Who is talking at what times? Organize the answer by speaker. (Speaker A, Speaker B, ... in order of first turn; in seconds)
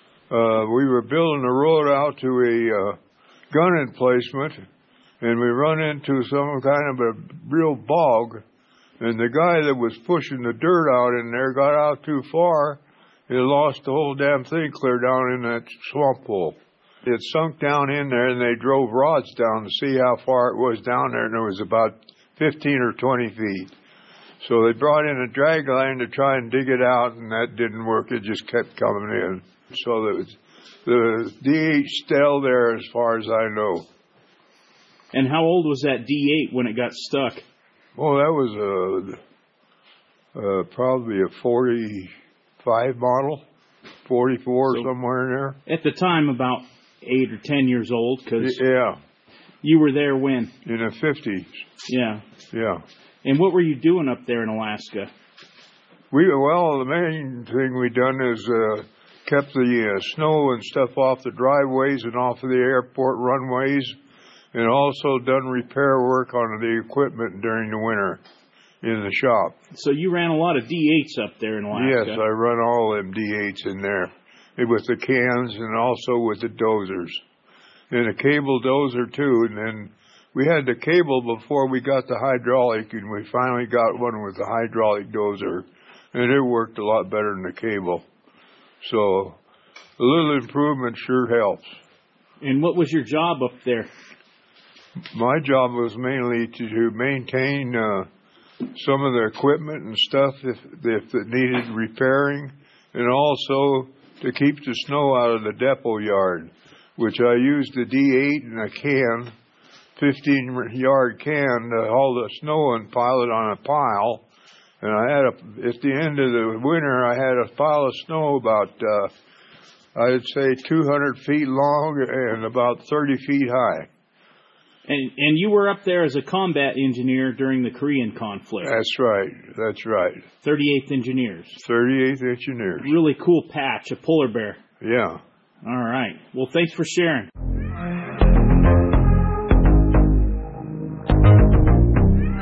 Speaker A: 0.3-3.0, 3.5-4.6, 5.2-8.4, 9.0-23.7, 24.4-33.9, 38.0-39.2, 40.3-43.4, 44.0-45.6, 48.4-49.0, 50.6-51.5, 52.5-52.8, 56.1-63.9, 64.5-68.2, 68.8-69.5, 71.7-77.2, 77.9-88.0, 88.8-89.4, 90.0-91.6, 95.1-98.1, 98.7-109.3, 110.0-114.2, 114.8-119.1, 119.9-123.9, 128.6-130.2, 131.6-132.9, 134.8-135.2
Speaker B: 35.1-37.4, 45.7-48.6, 49.6-50.5, 51.9-52.2, 53.2-55.1, 69.7-72.2, 92.4-93.9, 124.9-128.8, 130.4-131.6, 132.8-134.6, 135.6-137.3